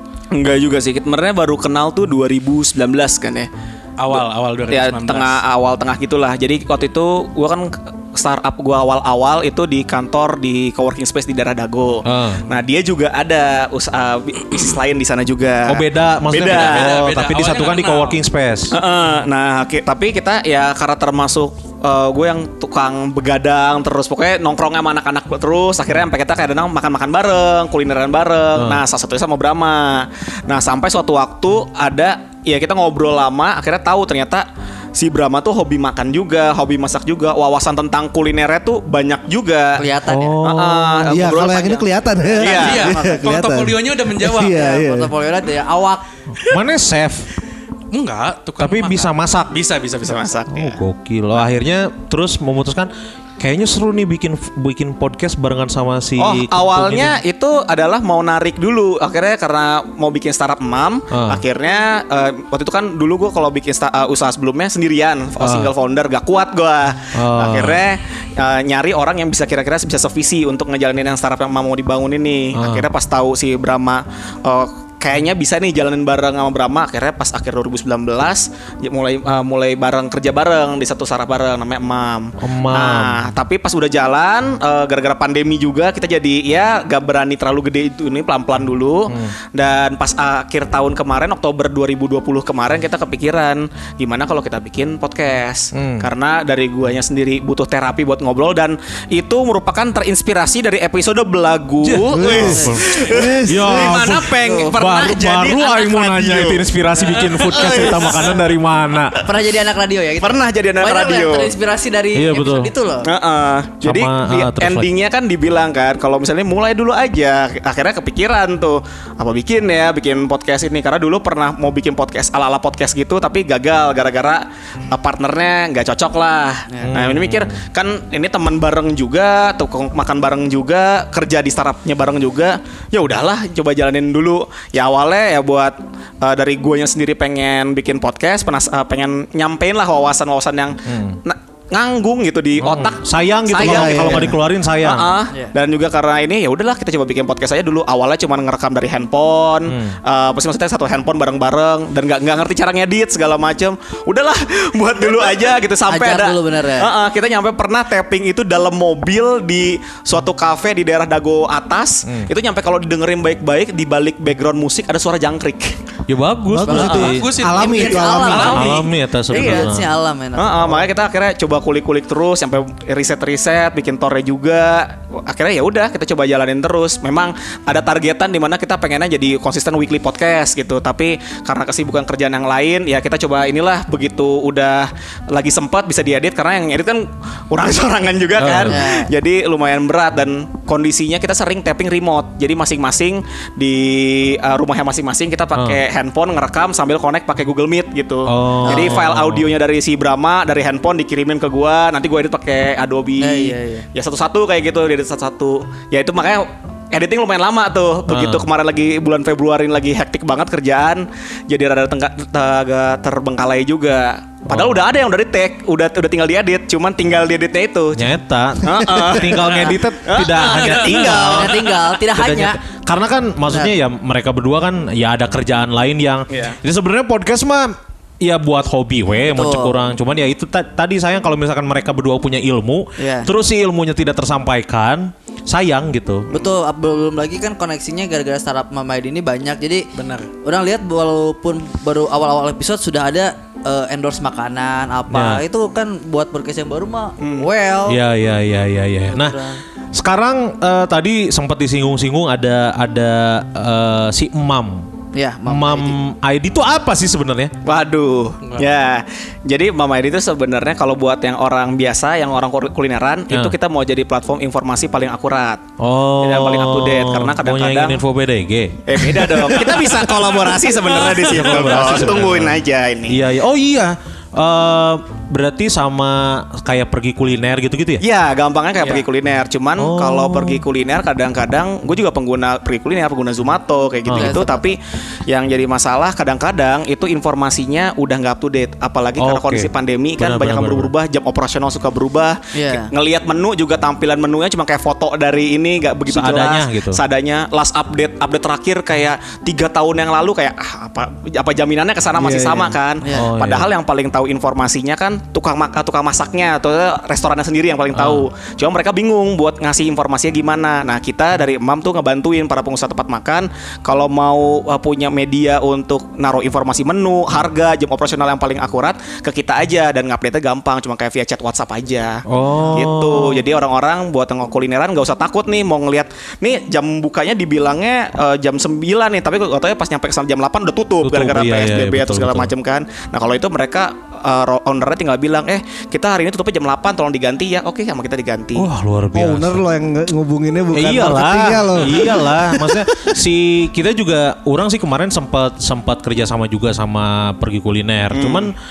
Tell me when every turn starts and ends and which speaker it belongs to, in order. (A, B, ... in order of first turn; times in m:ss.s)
0:00.3-0:03.5 A
0:04.0-0:05.4 B
0:04.1-0:17.0 A
0:12.0-0:12.4 C
0:15.7-0:18.7 C
0:16.4-0:18.2 B
0:18.7-0:39.8 A
0:39.8-0:40.4 D
0:40.1-0:41.2 C
0:40.4-0:42.9 A
0:41.1-0:45.1 E
0:42.5-0:44.6 B
0:44.4-0:46.0 D
0:46.4-0:47.3 C
0:47.9-0:50.3 B
0:48.6-0:49.5 C
0:50.0-0:50.8 A
0:50.5-0:57.2 C
0:56.2-1:48.4 A
1:01.1-1:01.4 C
1:05.4-1:05.7 C
1:07.1-1:07.8 C
1:12.6-1:12.9 C
1:22.4-1:23.2 C
1:29.1-1:29.3 C
1:35.8-1:36.1 C
1:41.8-1:49.3 C
1:42.1-1:44.1 E
1:49.2-1:53.1 D
1:50.2-1:51.5 A
1:52.1-1:52.7 C
1:53.0-2:45.8 A
1:53.8-1:54.9 C
2:06.7-2:06.9 D
2:06.9-2:07.6 C
2:20.9-2:21.2 C
2:22.6-2:25.2 C
2:23.6-2:24.4 E
2:29.7-2:30.0 C
2:35.9-2:36.9 D
2:46.1-2:47.3 C
2:46.5-2:48.6 E
2:46.7-2:50.8 D
2:46.7-2:47.1 A
2:47.0-2:48.9 B
2:48.4-2:49.9 C
2:49.3-2:49.7 A
2:50.4-3:38.1 A
3:08.4-3:08.8 C
3:08.7-3:09.1 D
3:18.3-3:19.5 C
3:18.6-3:19.0 D
3:23.2-3:23.9 D
3:28.1-3:28.4 C
3:34.5-3:34.8 C
3:37.9-3:56.3 C
3:38.6-3:41.7 A
3:40.8-3:42.6 D
3:43.5-3:43.7 D
3:46.3-3:46.6 A
3:49.2-3:49.8 D
3:53.0-3:53.3 D
3:56.3-3:59.9 D
3:59.9-4:00.3 B
4:00.4-4:08.0 D
4:05.1-4:05.4 C
4:07.2-4:07.5 A
4:07.9-4:09.4 C
4:09.1-4:09.6 D
4:09.9-4:14.9 C
4:15.1-4:16.0 D
4:15.4-4:17.5 C
4:17.6-4:25.6 A
4:25.8-4:29.6 C
4:26.2-4:28.0 A
4:28.9-4:33.2 A
4:31.1-4:32.6 C
4:33.1-4:38.0 C
4:38.0-5:38.7 A
4:39.8-4:40.6 C
4:44.1-4:44.4 C
4:44.1-4:44.7 D
4:49.2-4:50.9 C
4:52.5-4:52.9 D
4:56.1-4:57.0 C
5:02.2-5:02.7 E
5:03.0-5:03.3 D
5:03.1-5:03.7 C
5:07.9-5:08.3 C
5:22.3-5:23.4 C
5:22.5-5:22.8 D
5:31.0-5:32.5 C
5:38.6-5:39.6 C
5:39.1-5:42.9 E
5:40.7-5:48.6 C
5:48.1-5:48.5 A